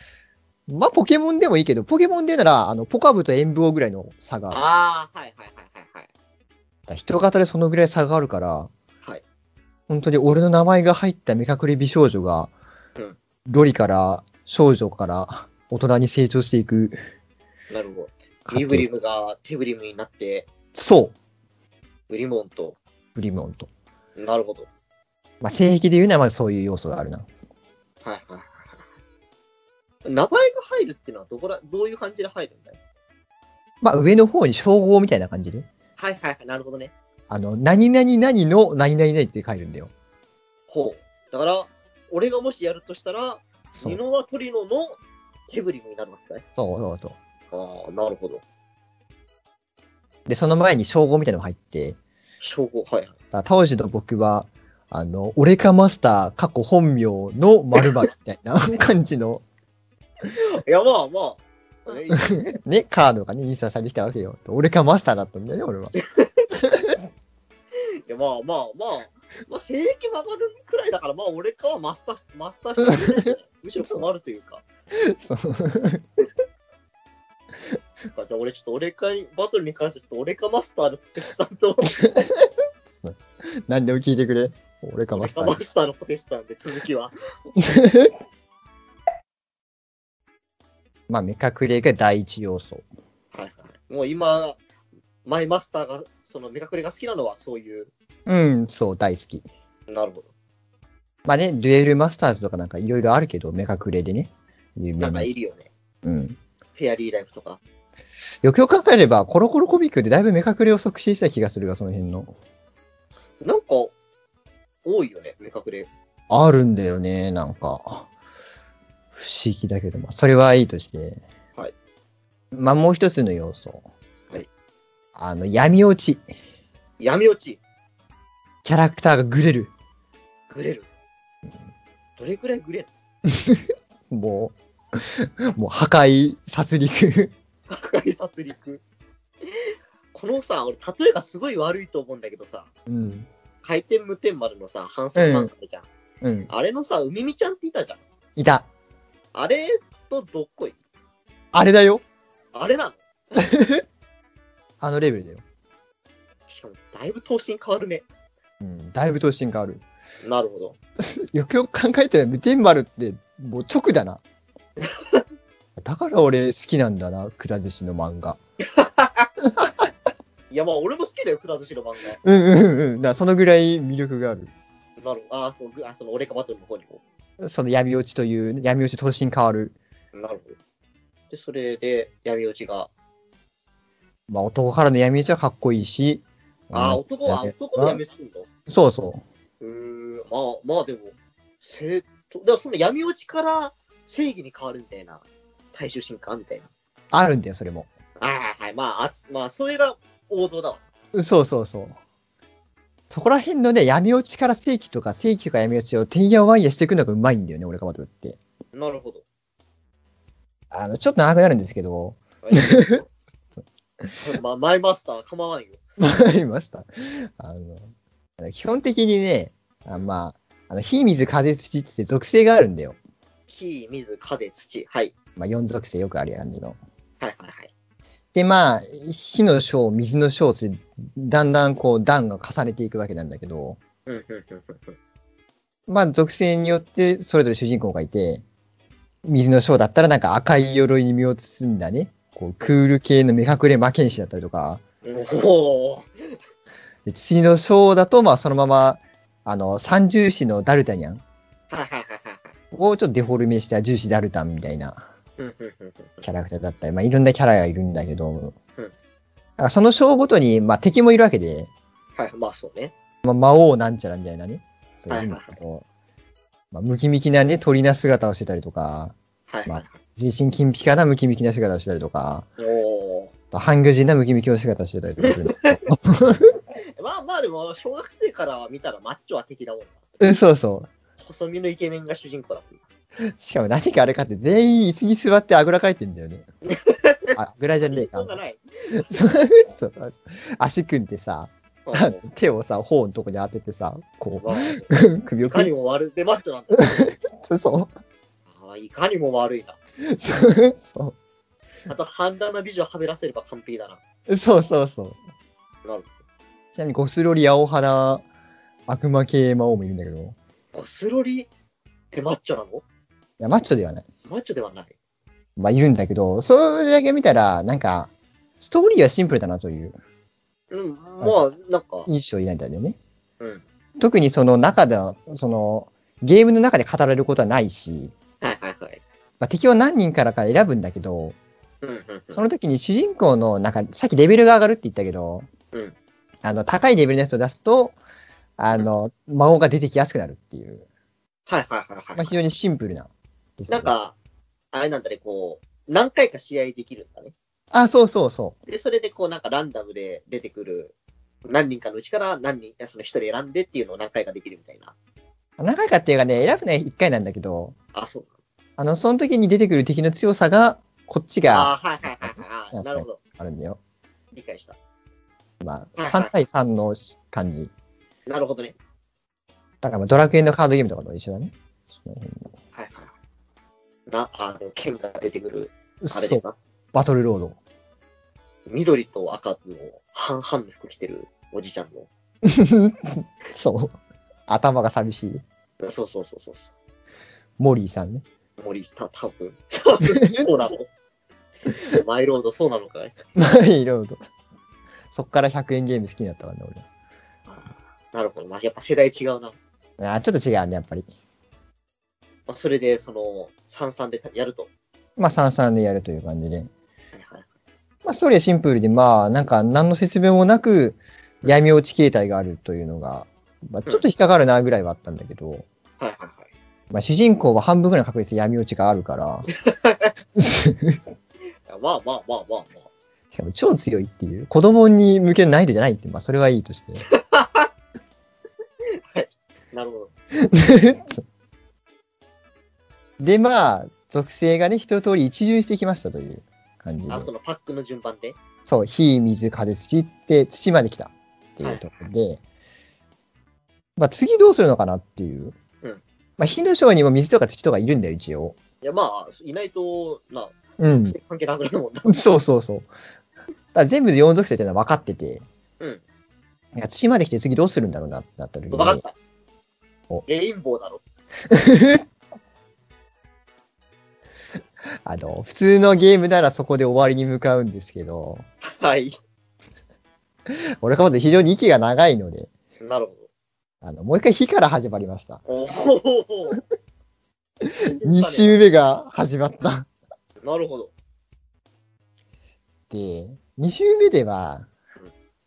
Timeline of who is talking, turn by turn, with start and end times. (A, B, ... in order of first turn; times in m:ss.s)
0:00.7-0:04.6 A
0:04.5-0:06.1 B
0:06.9-0:08.7 A
0:09.9-0:12.5 A
0:13.4-0:17.0 A
0:17.7-0:20.5 B
0:18.4-0:18.8 A
0:20.7-0:21.1 A
0:22.1-0:22.8 B
0:23.1-0:23.7 A
0:24.2-0:24.7 B
0:25.4-0:27.3 A
0:28.0-0:28.8 B
0:30.0-0:32.8 B
0:33.8-0:35.7 A
0:36.0-0:36.9 B
0:37.3-0:39.9 A
0:40.7-0:45.0 B
0:43.7-0:44.0 A
0:45.5-0:46.4 B
0:46.6-0:47.2 A
0:47.5-0:48.4 B
0:50.2-0:52.0 A
0:52.4-0:53.1 B
0:53.3-0:59.4 A
1:00.2-1:02.4 B
1:02.1-1:05.9 A
1:06.0-1:06.4 B
1:06.6-1:07.0 A
1:08.0-1:14.6 B
1:14.9-1:16.0 A
1:18.1-1:22.0 B
1:22.0-1:25.6 A
1:25.1-1:27.1 B
1:27.6-1:28.1 A
1:31.1-1:32.8 A
1:33.3-1:34.6 B
1:35.2-1:37.9 B
1:38.2-1:39.4 A
1:39.9-1:40.3 B
1:41.2-1:45.3 A
1:45.0-1:45.7 B
1:46.0-1:46.4 A
1:46.8-1:47.6 B
1:48.4-1:52.3 A
1:53.4-1:53.9 B
1:54.8-1:55.9 B
1:56.3-1:58.1 A
1:59.1-2:01.2 A
2:02.5-2:03.8 A
2:05.1-2:06.2 A
2:07.0-2:07.6 B
2:08.6-2:09.7 A
2:10.5-2:10.9 B
2:12.2-2:12.9 B
2:13.3-2:17.3 A
2:17.7-2:18.8 B
2:19.5-2:22.7 B
2:22.9-2:23.3 A
2:23.6-2:25.9 B
2:25.2-2:25.5 A
2:26.2-2:26.5 A
2:26.5-2:28.0 B
2:28.4-2:28.7 A
2:29.3-2:30.8 B
2:31.5-2:32.0 A
2:32.5-2:33.0 B
2:33.4-2:33.8 A
2:34.8-2:35.4 A
2:36.5-2:38.0 B
2:38.6-2:39.8 A
2:40.2-2:40.8 B
2:41.0-2:44.2 A
2:44.8-2:45.2 B
2:45.8-2:48.4 A
2:48.6-2:49.3 B
2:49.4-2:49.8 A
2:50.5-2:52.2 B
2:52.2-2:54.5 A
2:55.0-2:57.0 B
2:57.4-2:59.7 A
3:00.1-3:00.6 B
3:01.3-3:02.9 B
3:04.3-3:08.0 A
3:06.7-3:08.5 B
3:08.7-3:09.2 A
3:09.6-3:16.7 B
3:17.1-3:17.9 A
3:18.2-3:20.8 B
3:21.1-3:22.0 A
3:23.1-3:28.4 A
3:28.7-3:29.2 B
3:30.7-3:33.0 A
3:32.4-3:33.1 B
3:33.6-3:34.1 A
3:34.2-3:35.8 B
3:36.0-3:43.0 A
3:43.5-3:45.1 B
3:45.4-3:46.8 A
3:47.2-3:47.7 B
3:48.3-3:53.8 A
3:54.0-3:55.0 B
3:55.9-3:58.4 A
3:59.2-4:04.8 A
4:05.0-4:06.4 B
4:07.0-4:11.2 A
4:11.7-4:12.5 B
4:12.7-4:15.0 A
4:15.4-4:16.2 B
4:16.2-4:18.5 A
4:19.6-4:21.7 A
4:22.2-4:22.9 B
4:23.2-4:25.8 A
4:25.1-4:25.6 B
4:26.7-4:29.2 A
4:29.5-4:30.0 B
4:29.7-4:32.5 A
4:32.6-4:33.3 B
4:33.5-4:36.6 A
4:35.2-4:35.8 B
4:37.0-4:40.0 B
4:40.2-4:40.9 A
4:41.2-4:42.8 B
4:43.3-4:46.4 A
4:46.6-4:49.1 B
4:47.4-4:48.3 A
4:49.0-4:55.7 A
4:51.8-4:52.2 B
4:54.4-4:54.9 B
4:55.4-4:57.1 B
4:56.8-4:57.9 A
4:58.5-4:59.8 B
5:00.0-5:01.1 A
5:01.9-5:04.0 B
5:04.3-5:05.2 A
5:06.7-5:08.2 A
5:08.9-5:10.4 A
5:10.7-5:11.5 B
5:12.1-5:12.8 B
5:13.4-5:14.0 A
5:14.2-5:14.9 B
5:15.6-5:20.0 A
5:20.7-5:22.1 B
5:22.0-5:23.0 A
5:24.0-5:28.1 A
5:28.4-5:29.0 B
5:29.4-5:31.4 A
5:31.8-5:32.4 B
5:32.3-5:35.5 A
5:36.4-5:38.0 A
5:38.6-5:40.8 A
5:41.5-5:42.3 B
5:42.2-5:43.9 A
5:43.7-5:44.2 B
5:44.7-5:47.3 B
5:47.7-5:48.6 A
5:48.7-5:50.9 B
5:51.4-5:54.9 B
5:55.6-5:57.7 A
5:57.9-5:58.3 B
5:58.8-6:03.8 A
6:01.5-6:03.2 B
6:04.3-6:04.8 B
6:05.6-6:07.7 A
6:06.0-6:06.3 B
6:08.3-6:08.7 B
6:09.8-6:12.5 A
6:12.7-6:13.1 B
6:14.1-6:16.6 B
6:16.0-6:16.4 A
6:16.9-6:17.6 A
6:18.7-6:22.1 B
6:22.4-6:23.9 A
6:24.5-6:25.4 A
6:25.8-6:26.7 B
6:27.6-6:28.2 A
6:28.6-6:30.9 B
6:30.2-6:30.5 A
6:31.7-6:33.1 B
6:33.3-6:34.2 A
6:35.1-6:36.8 A
6:37.5-6:39.6 B
6:40.0-6:41.1 A
6:42.5-6:44.7 B
6:45.2-6:46.7 A
6:47.1-6:47.4 B
6:48.0-6:55.6 A
6:56.0-6:56.5 B
6:56.9-6:59.5 A
6:59.6-7:00.1 B
7:00.4-7:01.0 A
7:01.7-7:02.9 B
7:03.3-7:07.0 A
7:07.1-7:07.7 B
7:09.1-7:10.1 B
7:10.4-7:11.2 A
7:13.2-7:17.3 A
7:17.1-7:18.4 B
7:18.6-7:22.4 A
7:21.6-7:22.0 B
7:24.0-7:25.5 A
7:26.4-7:28.6 A
7:28.8-7:32.2 B
7:30.8-7:31.2 A
7:32.1-7:32.9 A
7:33.7-7:35.4 A
7:36.7-7:39.0 A
7:38.7-7:39.1 B
7:40.2-7:41.0 B
7:41.5-7:42.0 A
7:45.0-7:48.4 A
7:48.6-7:49.2 B
7:50.5-7:52.5 A
7:52.8-7:53.3 B
7:53.8-7:55.4 A
7:55.4-7:56.6 B
7:57.6-7:59.9 A
7:58.0-7:58.6 B
8:00.4-8:00.9 B
8:02.9-8:04.7 A